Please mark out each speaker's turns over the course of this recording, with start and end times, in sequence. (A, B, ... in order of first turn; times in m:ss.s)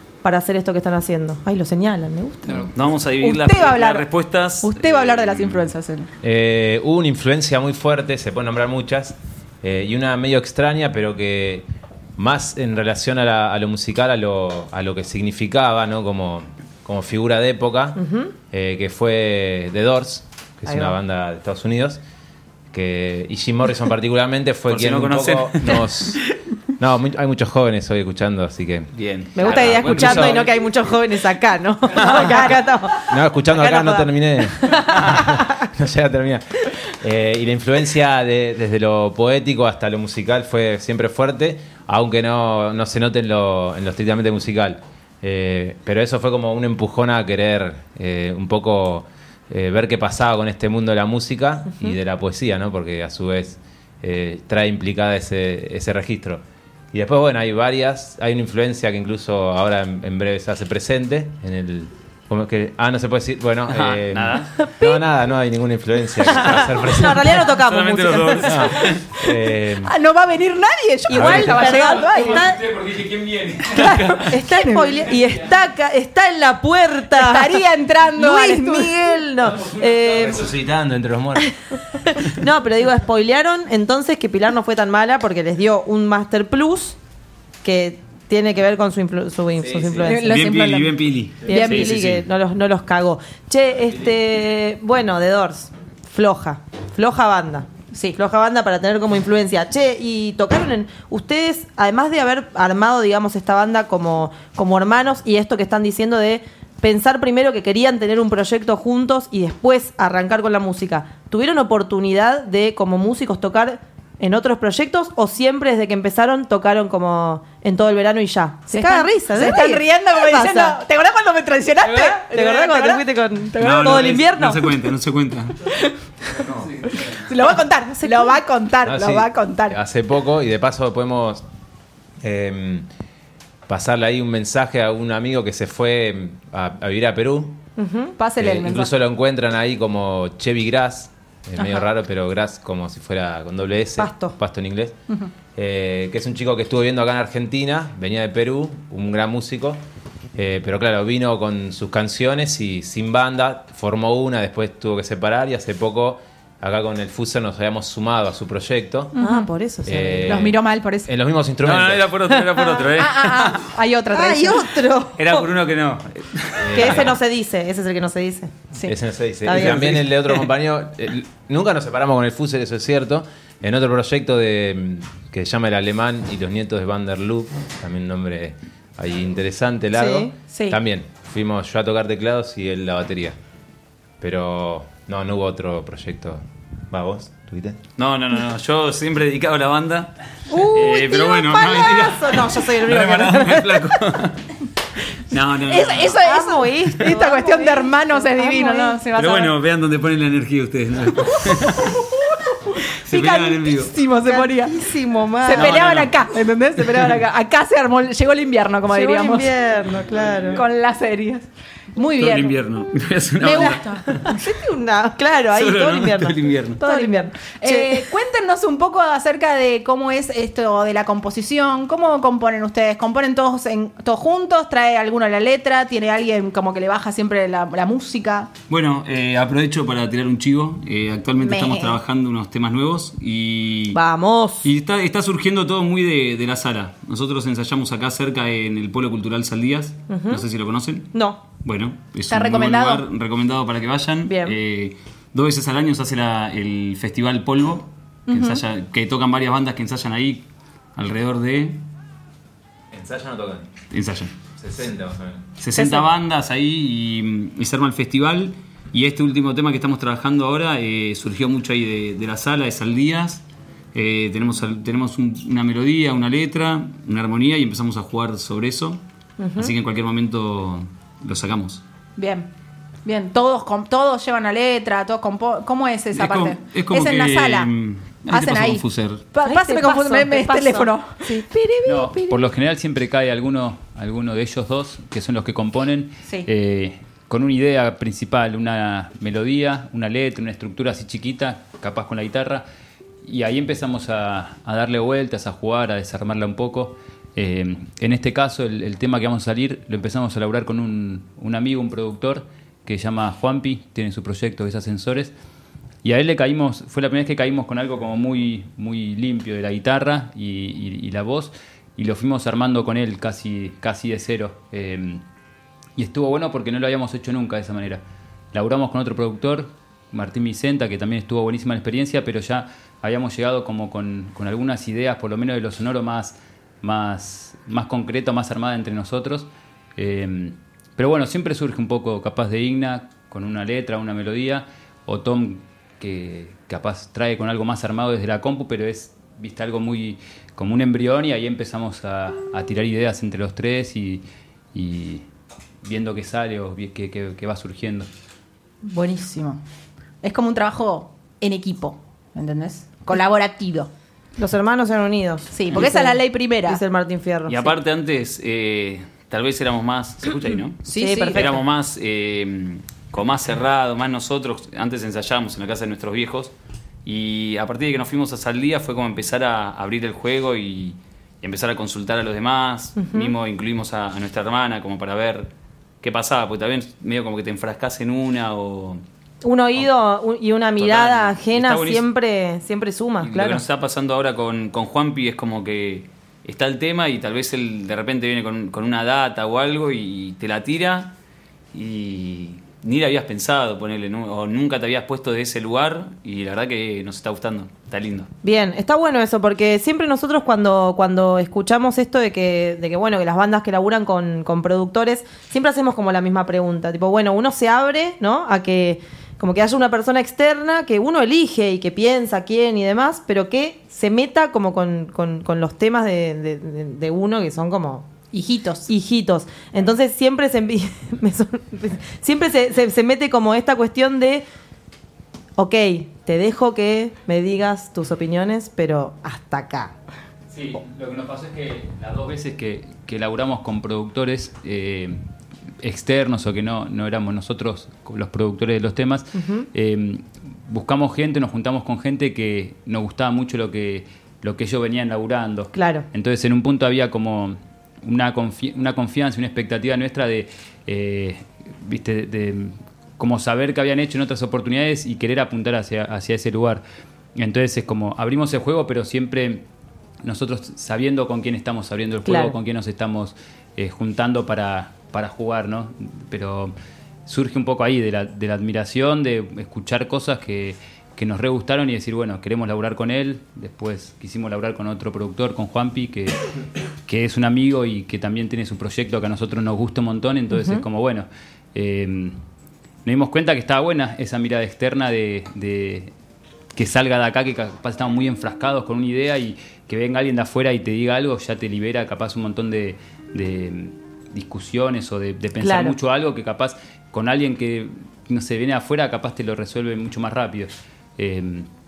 0:00.2-0:02.7 A
0:02.7-0:05.7 B
0:03.2-0:04.0 C
0:04.6-0:06.1 C
0:06.2-0:22.0 D
0:18.0-0:18.3 A
0:20.7-0:20.9 A
0:22.7-0:26.2 D
0:24.7-0:26.2 B
0:26.8-0:30.4 D
0:28.9-0:30.6 B
0:29.4-0:35.6 A
0:32.0-0:32.5 B
0:33.1-1:07.5 D
1:03.7-1:04.4 B
1:04.6-1:05.0 A
1:06.2-1:08.9 A
1:07.4-1:09.0 B
1:08.4-1:09.9 D
1:09.8-1:12.5 C
1:11.1-1:12.6 A
1:11.2-1:11.7 D
1:11.8-1:14.0 E
1:13.7-1:15.0 C
1:14.0-1:14.2 B
1:14.3-1:20.5 A
1:15.1-1:15.4 E
1:17.1-1:19.0 C
1:20.0-1:21.5 D
1:22.0-1:27.0 A
1:27.6-1:30.4 A
1:29.6-1:30.2 D
1:30.0-1:32.0 C
1:30.2-1:32.2 B
1:31.4-2:00.8 A
1:37.9-1:38.2 C
1:58.7-2:03.0 C
2:02.1-2:04.7 A
2:03.6-2:04.1 C
2:03.6-2:05.7 B
2:06.9-2:09.8 C
2:08.0-2:08.4 A
2:08.8-2:11.4 D
2:12.2-2:12.9 D
2:13.7-2:17.6 D
2:17.8-2:18.1 A
2:18.2-2:18.9 C
2:18.4-2:25.0 D
2:21.6-2:21.9 C
2:24.0-2:24.3 A
2:25.5-2:29.8 D
2:30.3-2:39.2 D
2:39.1-2:39.5 C
2:39.2-2:40.5 A
2:39.8-2:42.2 D
2:40.3-2:41.1 C
2:41.6-2:43.7 B
2:42.3-2:42.9 A
2:42.9-2:44.8 C
2:44.1-2:45.5 A
2:45.2-2:47.1 B
2:46.6-2:47.2 D
2:46.7-2:48.6 A
2:48.8-3:03.4 D
2:49.4-2:50.0 A
2:59.9-3:00.3 A
3:00.5-3:00.8 C
3:04.2-3:07.8 D
3:08.0-3:14.4 B
3:10.5-3:13.9 A
3:15.3-3:16.2 B
3:15.6-3:19.5 C
3:16.2-3:19.0 A
3:19.1-3:22.0 B
3:22.7-3:24.8 C
3:22.9-3:23.9 B
3:24.2-3:25.8 A
3:25.4-3:29.5 C
3:25.5-3:26.1 B
3:26.8-3:27.2 B
3:28.9-3:30.6 A
3:30.5-3:32.6 C
3:32.2-3:34.3 B
3:33.4-3:34.2 C
3:34.2-3:38.1 A
3:35.5-3:36.8 B
3:36.8-3:48.5 C
3:48.7-3:54.0 B
3:51.4-3:52.0 C
3:53.9-3:54.7 A
3:54.6-4:01.1 B
4:00.1-4:00.4 A
4:01.1-4:01.4 A
4:01.6-4:11.8 B
4:02.3-4:03.0 C
4:04.2-4:04.6 A
4:08.3-4:08.6 C
4:12.9-4:13.7 D
4:13.9-4:14.3 B
4:14.6-4:15.4 D
4:15.6-4:29.0 B
4:15.8-4:16.0 A
4:29.4-4:29.7 A
4:29.6-4:31.8 B
4:32.2-4:32.5 C
4:33.0-4:37.7 C
4:36.1-4:39.3 B
4:38.3-4:42.4 C
4:39.4-4:41.5 A
4:41.8-4:52.6 E
4:53.2-5:05.3 E
5:06.0-5:15.2 E
5:16.0-5:18.0 E
5:18.5-5:45.2 E
5:45.8-5:48.1 E
5:48.8-5:49.6 C
5:50.2-5:53.9 C
5:54.4-5:57.8 A
5:55.5-5:56.8 C
5:57.5-6:06.5 B
6:00.8-6:01.5 C
6:00.9-6:01.6 A
6:07.0-6:15.5 B
6:13.0-6:13.3 A
6:16.0-6:19.0 B
6:19.4-6:23.6 A
6:20.8-6:22.0 B
6:23.2-6:31.1 B
6:31.7-6:38.3 B
6:38.4-6:58.1 A
6:58.3-6:58.9 C
6:58.9-7:04.4 A
7:05.6-7:09.9 A
7:10.5-7:15.2 E
7:15.8-7:36.8 E
7:19.3-7:19.7 A
7:25.7-7:26.1 A
7:37.4-7:39.6 E
7:40.2-7:46.7 E
7:42.2-7:42.6 A
7:47.3-7:56.4 E
7:57.1-8:02.4 E
8:00.5-8:00.8 A
8:03.0-8:06.1 E
8:06.7-8:21.7 E
8:15.6-8:16.0 A